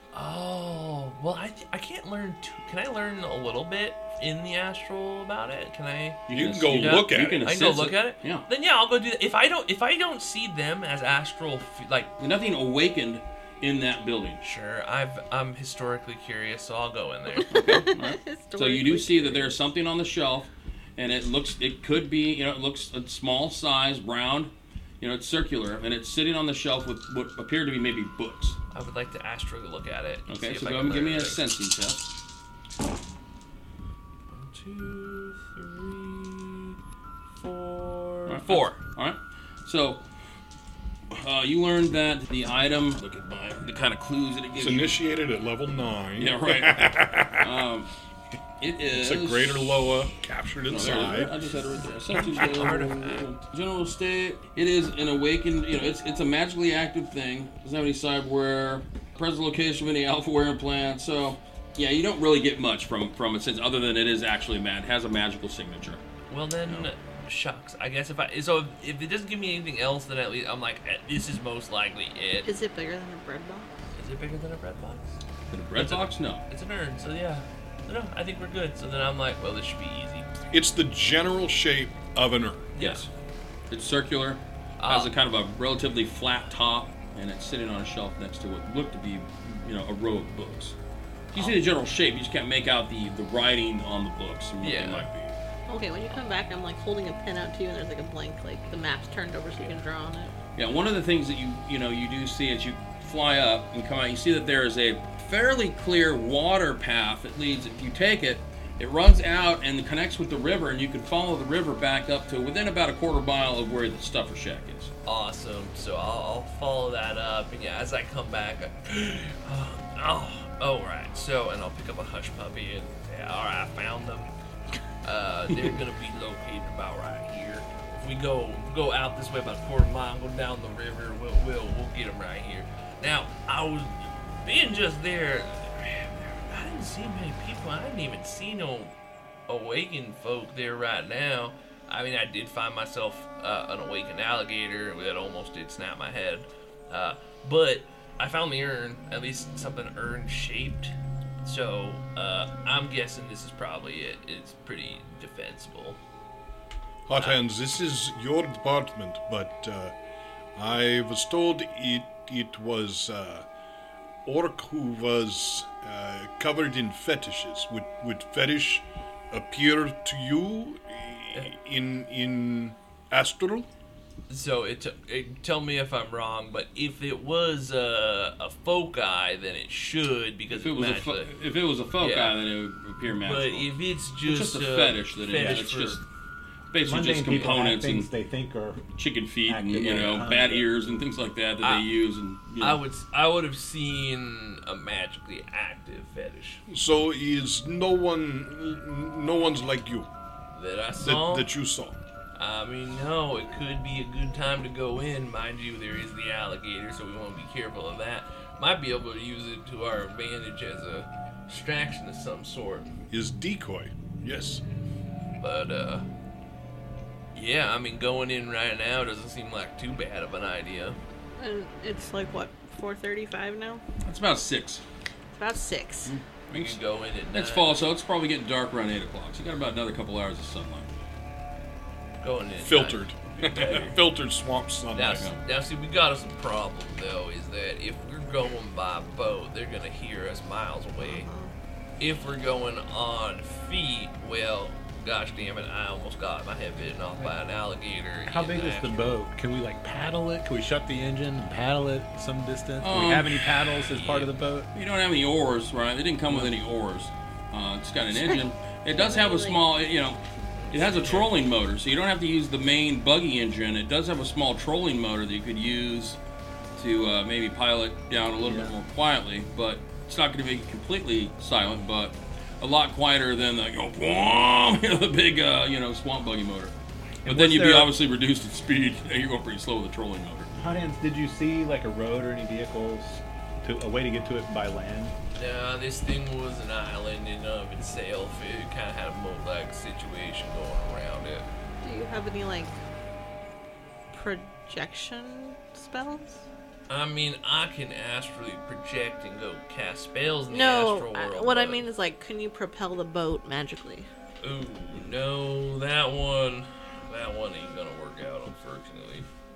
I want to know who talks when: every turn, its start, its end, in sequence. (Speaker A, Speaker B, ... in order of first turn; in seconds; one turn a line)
Speaker A: 0.1-12.1
Speaker B: 6.3-8.5
Speaker C: 6.3-7.5
Speaker B: 12.2-14.4
Speaker A: 14.4-17.9
Speaker D: 17.3-19.6
Speaker B: 17.5-28.6
Speaker A: 28.7-31.4
Speaker B: 30.3-32.1
Speaker A: 34.3-36.8
Speaker A: 37.4-38.8
Speaker B: 38.3-40.0
Speaker B: 41.1-45.0
Speaker C: 44.5-47.6
Speaker B: 46.2-47.9
Speaker B: 48.6-49.7
Speaker C: 48.9-51.4
Speaker B: 50.7-66.0
Speaker A: 52.1-53.3
Speaker A: 66.3-72.5
Speaker D: 72.5-73.7
Speaker A: 74.0-75.2
Speaker B: 75.5-76.4
Speaker A: 75.8-80.3
Speaker C: 80.5-82.8
Speaker A: 82.8-83.1
Speaker B: 82.8-83.1
Speaker B: 83.7-90.8
Speaker A: 84.8-85.1
Speaker B: 91.3-95.3
Speaker A: 94.6-95.1
Speaker D: 95.7-100.3
Speaker B: 100.6-114.9
Speaker A: 115.1-124.3
Speaker A: 125.0-138.9
Speaker A: 139.5-150.9
Speaker A: 151.4-156.0
Speaker C: 157.1-159.9
Speaker A: 157.1-157.4
Speaker C: 160.6-163.5
Speaker C: 164.2-173.7
Speaker A: 174.3-181.3
Speaker B: 180.5-183.7
Speaker A: 182.0-182.4
Speaker A: 183.2-186.0
Speaker B: 184.3-186.0
Speaker B: 186.7-188.1
Speaker E: 186.8-188.8
Speaker B: 189.0-192.8
Speaker E: 189.5-191.0
Speaker A: 191.6-191.9
Speaker A: 192.6-196.6
Speaker C: 196.7-200.1
Speaker A: 200.5-201.5
Speaker C: 201.0-202.0
Speaker A: 202.4-212.9
Speaker C: 213.1-214.6
Speaker A: 215.4-216.1
Speaker A: 217.3-221.0
Speaker D: 221.4-223.8
Speaker B: 224.0-224.8
Speaker D: 225.3-226.1
Speaker B: 226.1-226.8
Speaker A: 226.5-227.8
Speaker B: 227.3-230.9
Speaker A: 232.2-234.0
Speaker C: 232.6-235.3
Speaker A: 234.9-241.3
Speaker D: 241.0-241.5
Speaker A: 242.0-249.2
Speaker E: 248.3-254.7
Speaker B: 252.8-253.8
Speaker A: 253.9-254.3
Speaker B: 254.7-260.2
Speaker D: 258.9-259.6
Speaker A: 260.6-261.3
Speaker B: 260.7-266.2
Speaker B: 266.8-276.7
Speaker E: 268.4-268.7
Speaker E: 277.2-277.9
Speaker B: 277.3-280.5
Speaker E: 280.5-285.1
Speaker A: 285.3-291.5
Speaker D: 291.8-292.8
Speaker D: 294.1-296.4
Speaker A: 296.9-301.8
Speaker D: 300.5-304.1
Speaker A: 304.4-309.3